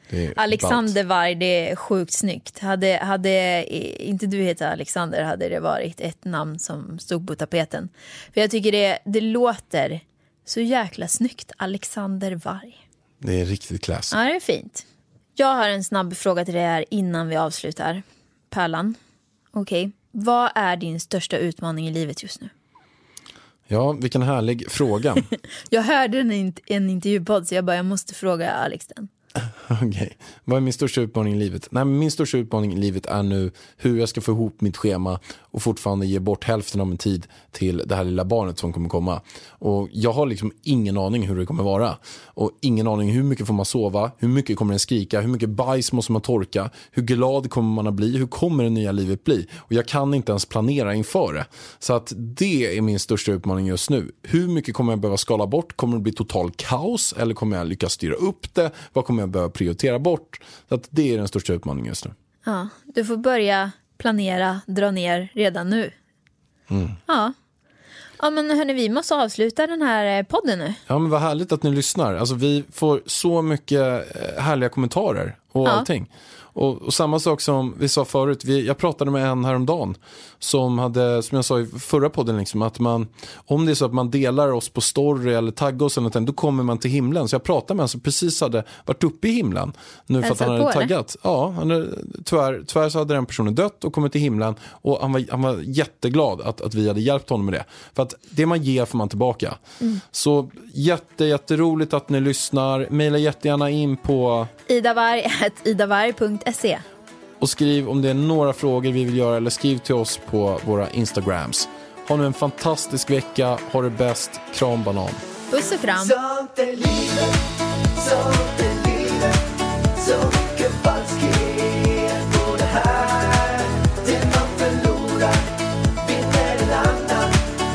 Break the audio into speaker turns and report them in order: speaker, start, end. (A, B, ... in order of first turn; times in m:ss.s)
0:00.1-0:00.9 A
0:00.4-0:12.8 B
0:13.2-0:14.2 A
0:14.1-0:14.8 B
0:15.4-0:19.0 B
0:19.5-0:22.5 B
0:23.7-0:25.3 A
0:25.7-0:29.1 B
0:29.4-1:02.1 A
1:02.5-1:05.9 B
1:06.7-1:07.0 A
1:07.1-1:07.3 B
1:08.2-1:10.8 B
1:10.9-1:39.6 A
1:30.2-1:30.9 B
1:40.1-1:44.5 A
1:44.7-1:46.8 B
1:47.4-1:55.2 A
1:55.5-1:56.1 B
1:56.0-2:07.4 C